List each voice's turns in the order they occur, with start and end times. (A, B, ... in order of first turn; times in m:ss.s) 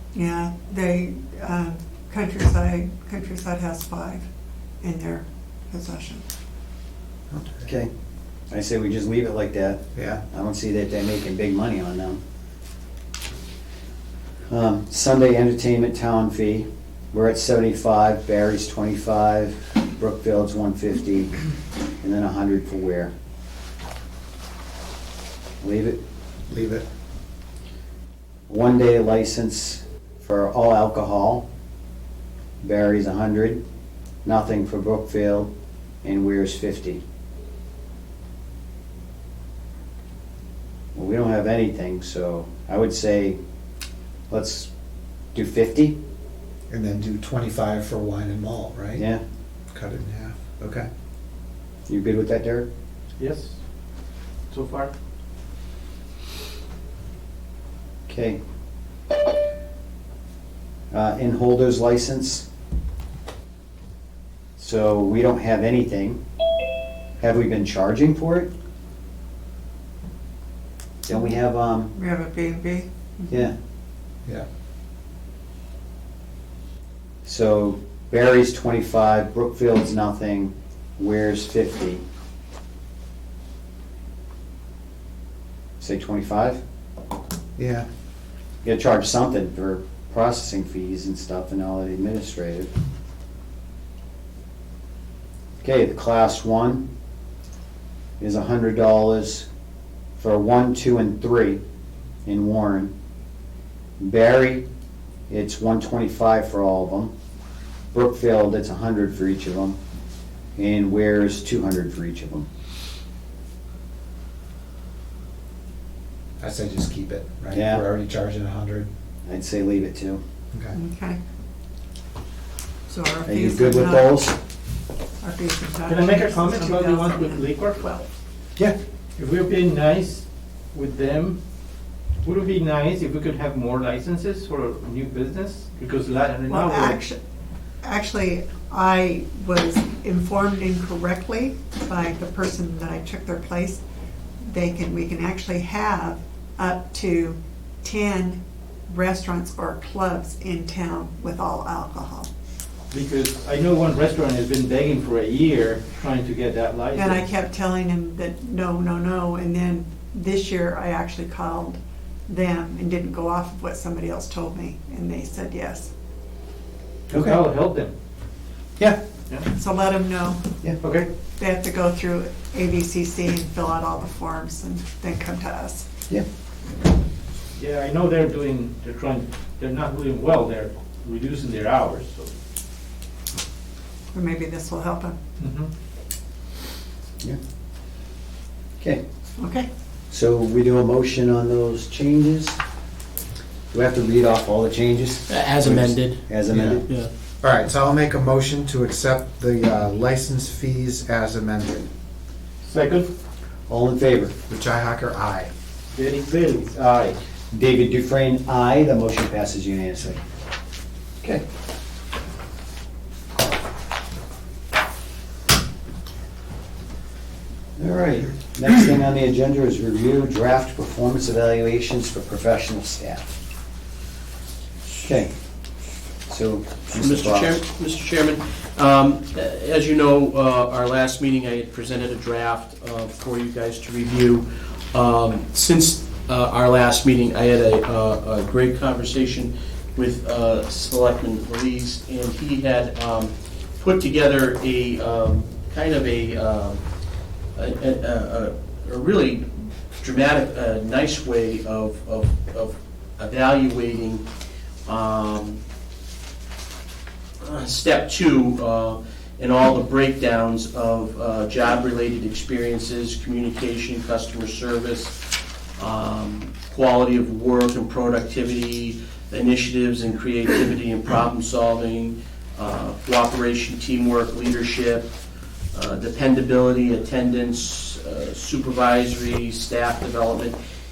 0:00.1-0:04.2 A
0:04.8-0:06.2 A
0:07.3-0:07.7 B
0:08.5-0:12.2 C
0:09.9-0:10.2 B
0:14.5-0:21.3 C
0:22.0-0:23.1 C
0:25.6-0:26.0 C
0:26.5-0:26.8 B
0:28.5-0:31.4 C
0:32.6-0:33.6 C
0:34.2-0:35.5 C
0:36.0-0:37.0 C
0:40.9-0:43.4 C
0:44.3-0:44.7 C
0:45.3-0:46.0 C
0:46.7-0:49.0 B
0:49.0-0:49.2 C
0:49.7-0:50.9 B
0:51.9-0:52.7 C
0:53.2-0:53.6 D
0:54.5-0:54.9 D
0:58.1-0:58.4 C
1:00.9-1:02.4 C
1:04.6-1:06.2 C
1:07.2-1:08.5 C
1:11.0-1:11.9 C
1:11.9-1:13.4 A
1:17.2-1:22.0 C
1:25.8-1:26.6 C
1:27.6-1:27.8 B
1:28.6-1:32.7 C
1:35.6-1:36.8 C
1:38.2-1:39.5 C
1:40.2-1:41.6 C
1:42.2-1:42.9 C
1:44.0-1:44.6 C
1:45.3-1:47.1 C
1:47.9-1:49.8 C
1:50.6-1:52.4 C
1:56.4-1:58.9 B
1:57.5-1:57.8 C
1:59.2-2:00.2 C
2:00.7-2:01.2 A
2:02.9-2:04.2 A
2:03.2-2:04.4 C
2:05.2-2:08.0 A
2:05.8-2:07.9 D
2:09.2-2:11.4 D
2:12.2-2:17.0 D
2:16.4-2:17.2 A
2:17.8-2:23.8 A
2:24.4-2:32.3 A
2:32.9-2:37.2 D
2:36.9-2:45.9 A
2:47.1-2:47.9 D
2:49.5-2:50.4 A
2:50.8-2:51.1 D
2:51.4-2:55.9 A
2:57.6-3:02.3 D
3:04.1-3:05.2 A
3:05.4-3:05.7 D
3:09.4-3:09.7 A
3:10.1-3:12.6 C
3:13.7-3:16.8 C
3:15.3-3:16.2 E
3:16.5-3:16.8 B
3:17.4-3:21.9 B
3:22.6-3:23.1 D
3:23.7-3:24.3 C
3:24.5-3:25.5 B
3:25.9-3:27.2 D
3:27.5-3:30.2 C
3:37.8-3:43.3 C
3:44.9-3:45.3 C
3:46.3-3:47.6 C
3:46.9-4:06.8 E
4:07.6-4:14.2 E
4:14.8-4:15.6 E
4:17.4-4:25.2 E
4:25.8-4:35.1 E
4:35.7-4:40.6 E